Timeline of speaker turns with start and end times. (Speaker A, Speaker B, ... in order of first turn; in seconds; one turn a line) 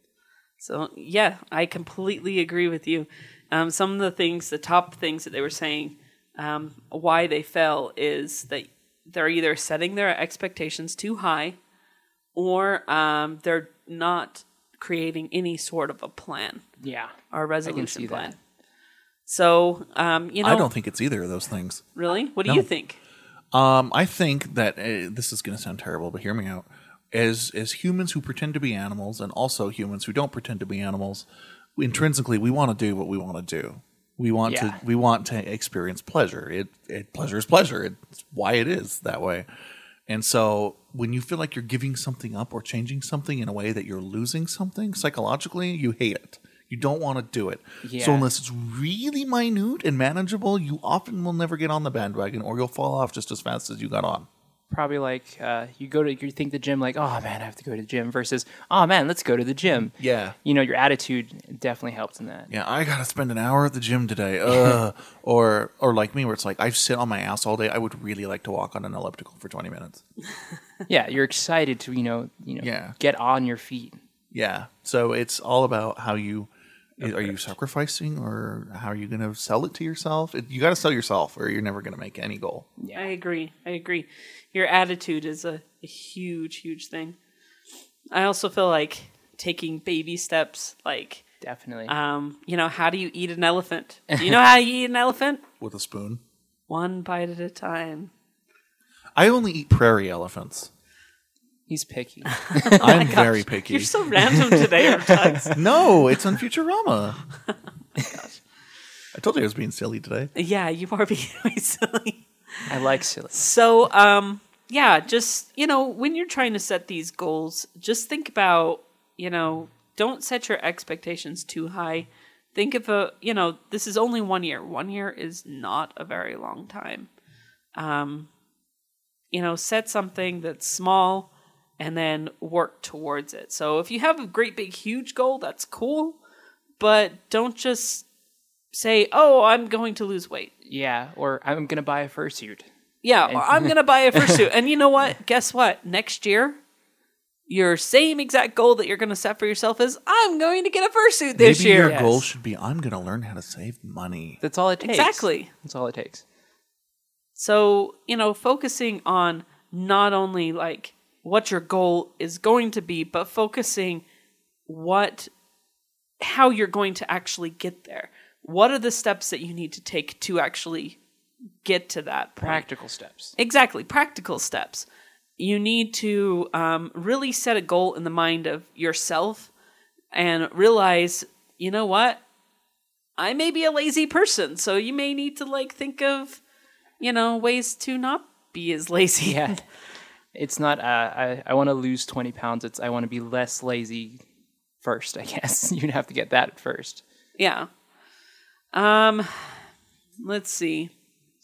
Speaker A: 0.6-11.6
Speaker A: 12.3-16.6
Speaker B: 16.8-18.4
Speaker A: 17.3-18.4
Speaker A: 19.3-20.7
Speaker C: 20.4-21.8
Speaker A: 21.9-23.0
Speaker C: 23.5-39.5
Speaker B: 34.5-34.8
Speaker C: 40.1-54.3
Speaker B: 47.8-48.3
Speaker B: 54.7-62.5
Speaker C: 60.0-60.4
Speaker C: 62.5-70.0
Speaker B: 70.9-74.0
Speaker C: 72.6-73.0
Speaker C: 74.3-82.7
Speaker B: 77.0-77.5
Speaker B: 82.8-83.1
Speaker A: 83.0-87.2
Speaker A: 88.1-91.2
Speaker B: 91.4-91.9
Speaker A: 91.9-95.4
Speaker C: 95.6-96.2
Speaker A: 96.7-98.1
Speaker C: 99.2-100.7
Speaker B: 101.7-103.0
Speaker A: 102.5-105.7
Speaker C: 102.8-103.9
Speaker B: 104.5-105.4
Speaker C: 105.5-107.2
Speaker A: 108.0-108.3
Speaker C: 109.1-110.3
Speaker A: 110.3-112.2
Speaker B: 112.7-113.4
Speaker A: 113.3-127.1
Speaker A: 127.8-128.3
Speaker A: 129.3-136.2
Speaker A: 136.8-138.1
Speaker A: 138.7-140.5
Speaker B: 140.6-142.7
Speaker A: 143.0-146.6
Speaker B: 143.2-144.3
Speaker A: 147.5-152.0
Speaker C: 151.3-154.4
Speaker B: 151.8-152.2
Speaker B: 154.4-156.2
Speaker A: 154.8-155.5
Speaker A: 157.3-164.0
Speaker A: 164.7-165.3
Speaker A: 166.2-171.0
Speaker A: 171.6-172.6
Speaker B: 172.4-173.3
Speaker A: 173.4-174.9
Speaker A: 175.4-179.5
Speaker A: 180.1-182.2
Speaker A: 183.2-186.4
Speaker A: 187.0-189.6
Speaker B: 189.2-189.6
Speaker B: 190.3-194.2
Speaker B: 194.8-197.0
Speaker A: 197.4-197.7
Speaker A: 198.7-199.6
Speaker A: 200.2-200.9